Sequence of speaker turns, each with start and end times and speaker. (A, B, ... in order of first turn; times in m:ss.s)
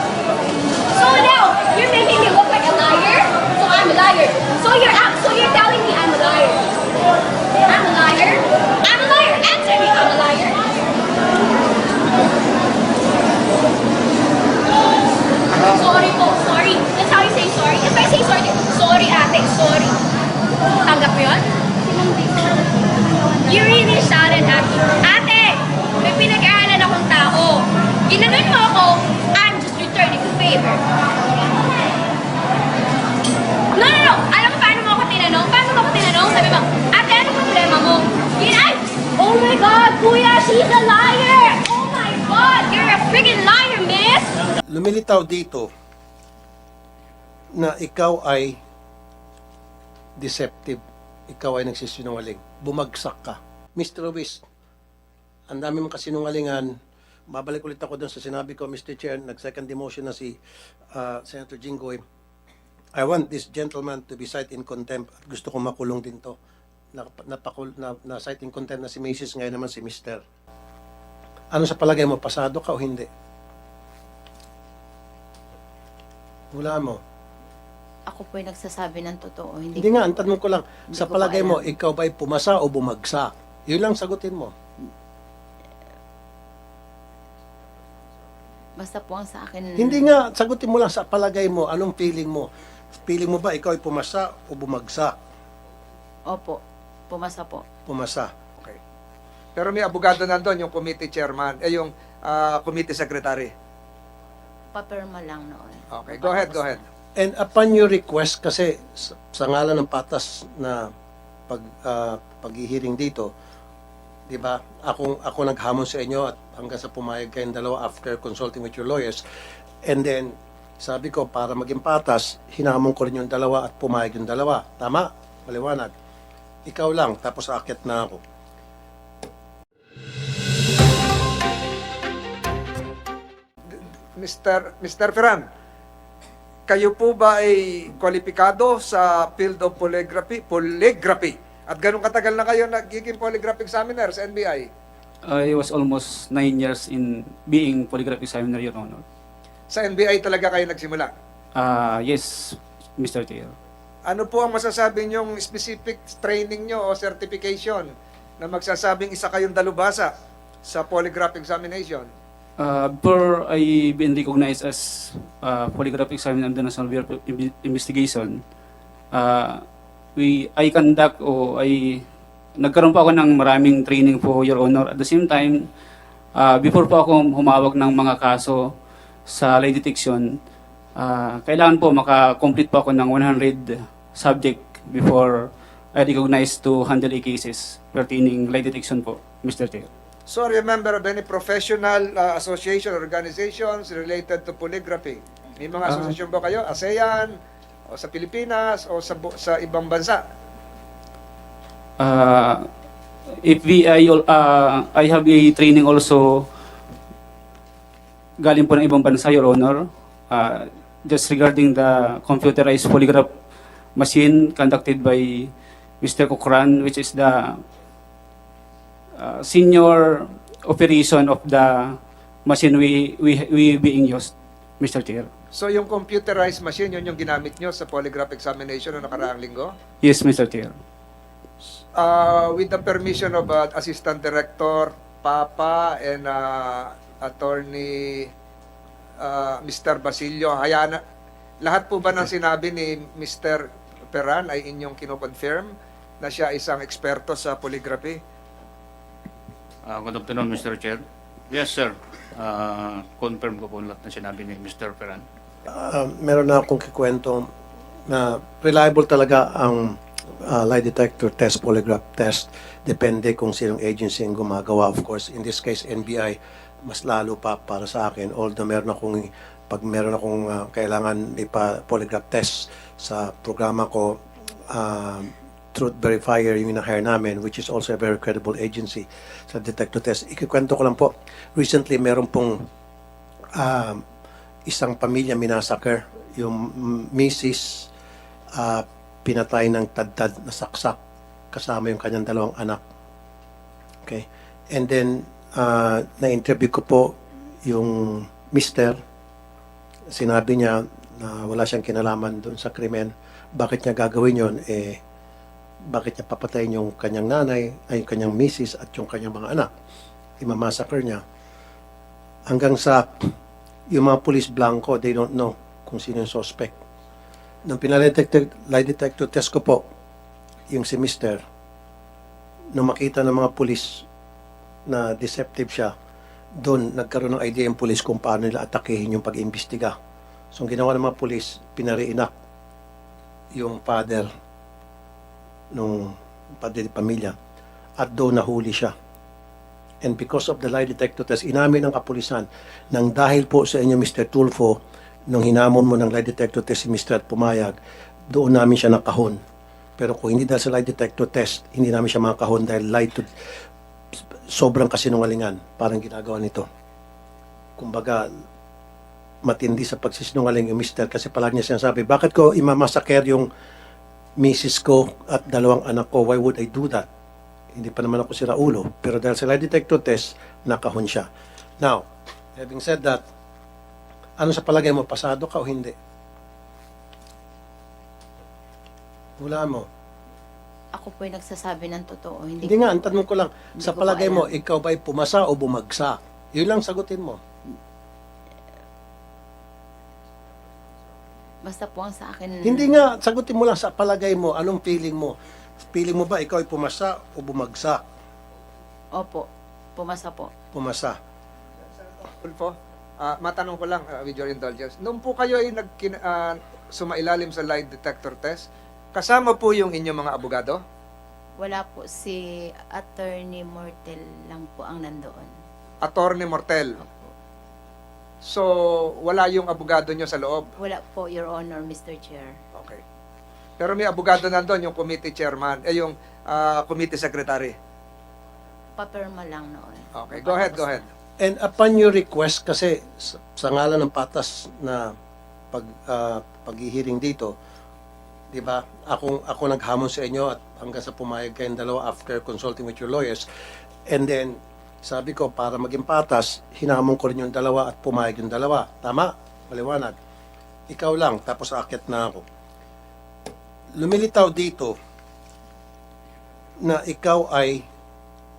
0:00.9-0:06.6 A
0:07.7-0:10.6 A
0:15.6-0:20.0 A
0:20.8-0:21.5 A
0:23.4-0:30.8 A
0:33.7-0:44.3 A
0:44.7-0:45.7 B
0:47.6-0:48.6 B
0:50.2-0:54.4 B
0:55.5-0:56.7 B
0:57.3-1:00.4 B
1:00.9-1:02.0 B
1:03.0-1:06.4 B
1:06.9-1:10.2 B
1:11.5-1:13.1 B
1:16.5-1:17.0 B
1:18.1-1:20.4 C
1:19.7-1:24.5 B
1:20.9-1:21.7 C
1:28.8-1:30.1 C
1:29.8-1:32.5 B
1:33.0-1:35.1 B
1:36.3-1:37.6 C
1:37.8-1:38.3 B
1:39.6-1:43.5 D
1:44.7-1:46.8 C
1:45.9-1:46.8 D
1:47.2-1:50.9 B
1:51.5-1:53.3 B
1:54.3-1:59.2 B
1:59.8-2:05.9 B
2:06.6-2:08.2 B
2:13.7-2:15.4 D
2:16.7-2:24.7 D
2:25.2-2:29.0 E
2:29.7-2:31.1 D
2:31.6-2:33.5 E
2:34.0-2:37.9 D
2:38.4-2:40.1 D
2:40.6-2:42.1 D
2:42.6-2:48.4 E
2:49.1-2:49.6 E
2:50.2-2:52.0 E
2:52.6-2:55.7 E
2:56.4-2:58.7 E
2:59.3-3:00.3 E
3:01.0-3:09.9 E
3:10.3-3:17.3 D
3:15.9-3:16.2 E
3:17.9-3:20.2 D
3:22.0-3:22.7 E
3:23.4-3:26.5 E
3:28.4-3:33.3 E
3:34.0-3:37.6 E
3:39.2-3:45.3 E
3:45.5-3:49.7 D
3:50.0-3:50.8 E
3:51.9-3:58.3 D
3:59.2-4:01.0 D
4:01.6-4:08.2 D
4:09.8-4:15.2 F
4:15.7-4:17.5 B
4:18.1-4:42.6 B
4:43.6-4:44.0 B
4:44.7-4:47.9 B
4:48.6-4:51.0 B
4:51.5-4:52.8 B
4:54.0-4:59.0 B
5:00.1-5:05.0 B
5:05.9-5:09.7 B
5:10.4-5:11.2 B
5:12.5-5:13.1 B
5:13.9-5:16.8 B
5:17.6-5:19.8 B
5:20.7-5:21.4 B
5:22.7-5:24.0 B
5:24.9-5:25.9 B
5:26.6-5:29.9 B
5:30.5-5:32.3 B
5:33.5-5:34.3 B
5:35.7-5:37.3 B
5:38.0-5:38.9 B
5:40.0-5:47.7 B
5:48.3-5:49.4 B
5:50.0-5:53.3 B
5:54.5-5:56.6 B
5:57.8-5:58.2 B
5:59.4-6:03.5 B
6:04.4-6:07.0 B
6:07.7-6:11.3 B
6:12.6-6:13.2 B
6:14.4-6:15.9 B
6:19.4-6:19.8 B
6:20.9-6:23.1 C
6:22.6-6:27.4 B
6:23.8-6:24.5 C
6:31.6-6:32.9 C
6:32.6-6:35.3 B
6:35.9-6:38.0 B
6:39.1-6:40.5 C
6:40.7-6:41.2 B
6:42.0-6:50.8 D
6:51.6-6:55.5 C
6:56.0-6:57.2 D
6:58.4-7:00.7 D
7:00.8-7:02.6 C
7:02.7-7:03.0 D
7:03.8-7:07.7 D
7:09.0-7:11.0 C
7:10.2-7:11.1 D
7:11.4-7:15.1 B
7:15.7-7:17.5 B
7:18.5-7:23.4 B
7:24.1-7:30.2 B
7:30.9-7:32.4 B
7:34.0-7:34.9 B
7:36.8-7:37.8 B